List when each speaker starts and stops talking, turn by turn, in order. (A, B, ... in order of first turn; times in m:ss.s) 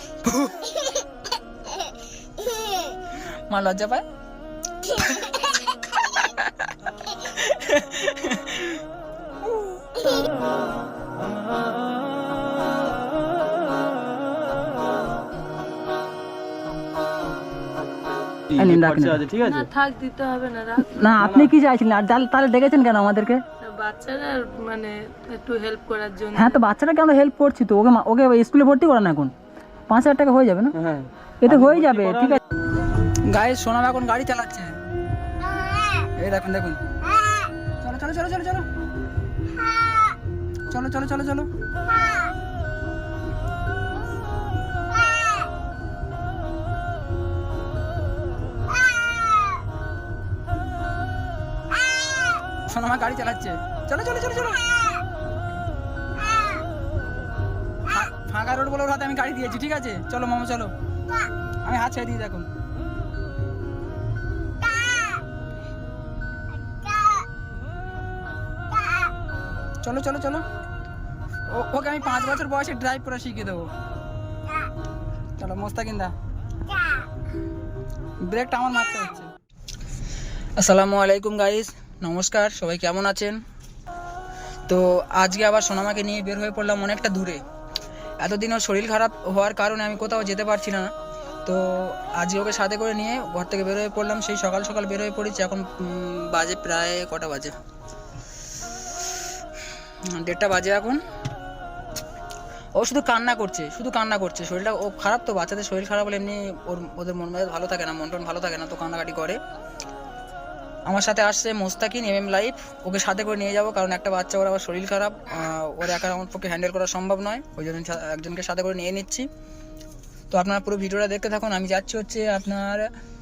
0:00.2-0:00.8 A
0:03.5-0:04.0 A
0:04.8-0:06.6 A
0:07.2-0:08.8 A
0:18.5-0:19.7 B
0:18.6-0:19.2 A
0:19.4-0:20.9 C
0:20.9-0:23.4 A
0:21.2-0:21.5 B
0:23.6-0:26.6 C
0:26.4-0:29.3 A
0:29.9-0:30.7 A
0:30.7-0:32.4 B
0:31.4-0:32.4 A
0:33.3-0:34.7 A
0:36.0-0:36.8 A
0:37.8-0:38.6 A
0:40.7-0:41.5 A
0:52.7-0:54.7 A
0:57.9-1:00.7 A
1:01.6-1:02.5 A
1:09.8-1:10.4 A
1:11.5-1:13.7 A
1:15.4-1:16.1 A
1:18.2-1:19.3 A
1:20.6-1:23.4 A
1:24.7-1:27.4 A
1:28.2-1:30.9 A
1:31.4-1:37.5 A
1:40.1-1:41.0 A
1:42.7-1:49.4 A
1:50.9-1:59.2 A
2:00.3-2:02.9 A